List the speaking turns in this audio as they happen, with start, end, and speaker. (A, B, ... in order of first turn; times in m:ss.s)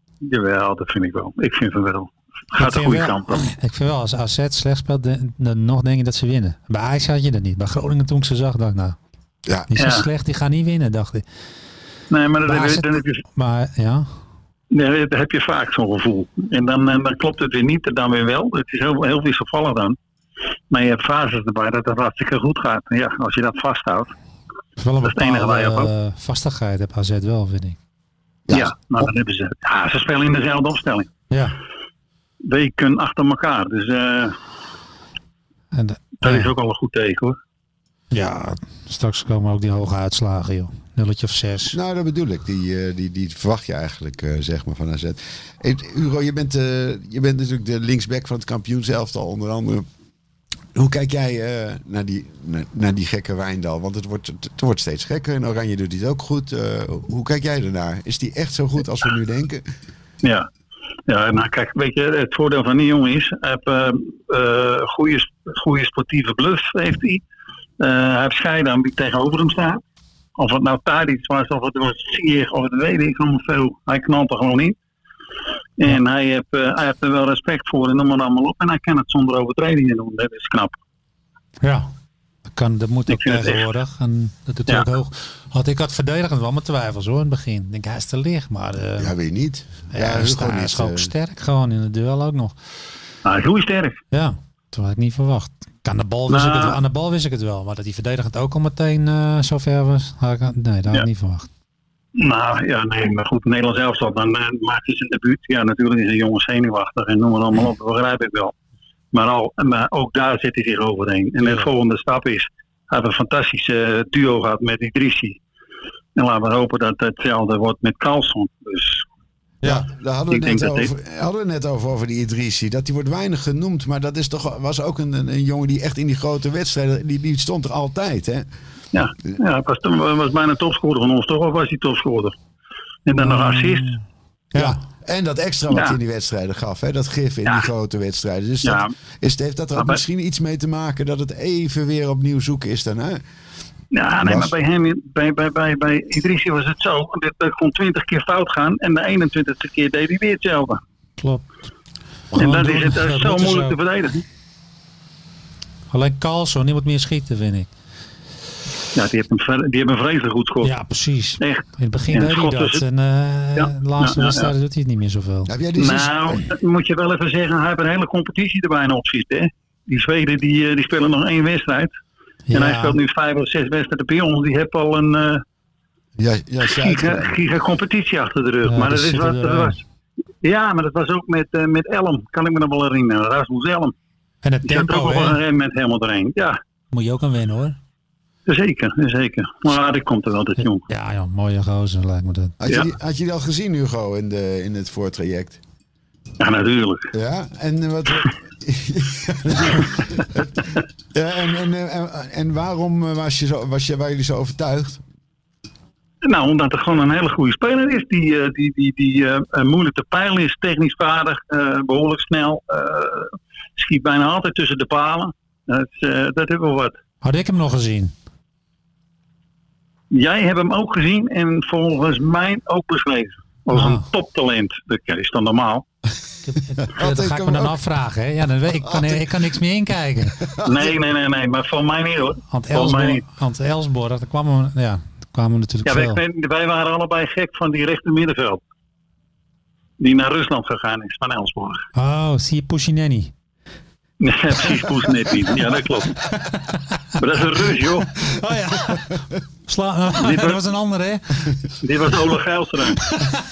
0:00.2-0:03.4 A
0:02.5-0:09.0 B
0:09.7-0:11.2 B
0:09.8-0:10.1 A
0:12.1-0:13.2 A
0:12.4-0:14.1 B
0:14.7-0:20.0 A
0:20.7-0:24.1 A
0:24.8-0:27.8 B
0:25.0-0:25.9 A
0:28.5-0:29.0 C
0:28.5-0:31.1 A
0:31.3-0:31.6 B
0:32.4-0:34.4 A
0:35.7-0:36.5 B
0:36.2-0:37.4 A
0:38.1-0:41.8 B
0:41.7-0:49.8 C
0:50.7-0:59.6 C
1:00.2-1:00.5 A
1:01.1-1:07.2 A
1:07.8-1:09.8 A
1:10.4-1:14.8 A
1:15.8-1:20.8 A
1:21.6-1:21.9 B
1:22.5-1:29.1 B
1:23.1-1:23.6 A
1:29.0-1:31.1 C
1:29.9-1:32.6 B
1:33.2-1:34.0 A
1:34.1-1:41.5 B
1:36.3-1:36.8 A
1:42.2-1:48.5 A
1:49.1-1:55.4 A
1:51.4-1:51.7 B
1:56.1-1:59.0 A
1:59.6-2:08.5 C
2:00.3-2:00.9 A
2:08.9-2:12.3 A
2:13.0-2:13.9 A
2:13.2-2:14.0 B
2:14.5-2:14.8 B
2:14.5-2:23.2 C
2:15.7-2:16.0 A
2:18.6-2:18.9 A
2:23.9-2:30.8 A
2:24.2-2:24.5 C
2:31.2-2:31.4 B
2:32.3-2:33.8 B
2:32.3-2:34.2 A
2:35.9-2:37.7 B
2:38.9-2:40.7 A
2:40.6-2:45.5 B
2:41.4-2:42.8 A
2:43.6-2:44.5 A
2:45.5-2:46.4 C
2:45.8-2:51.9 A
2:52.5-2:53.0 B
2:52.5-2:55.4 A
2:56.2-2:57.4 C
2:56.6-2:59.8 A
2:58.6-2:59.8 B
3:00.4-3:03.9 A
3:04.4-3:05.4 B
3:04.6-3:06.6 A
3:06.9-3:07.8 B
3:08.4-3:10.8 A
3:10.9-3:12.6 B
3:12.6-3:15.6 C
3:16.4-3:17.1 A
3:17.1-3:25.0 C
3:26.2-3:37.0 A
3:37.2-3:38.1 B
3:40.1-3:45.8 A
3:43.7-3:44.0 B
3:46.4-3:50.4 B
3:46.8-3:47.8 C
3:48.8-3:49.3 C
3:50.4-3:51.0 C
3:50.6-3:53.2 A
3:52.5-3:56.2 B
3:55.8-3:58.6 A
4:00.0-4:01.8 A
4:01.9-4:03.3 B
4:04.2-4:06.2 A
4:06.4-4:06.7 B
4:07.2-4:08.1 A
4:08.2-4:11.6 B
4:10.2-4:10.6 A
4:11.8-4:13.1 A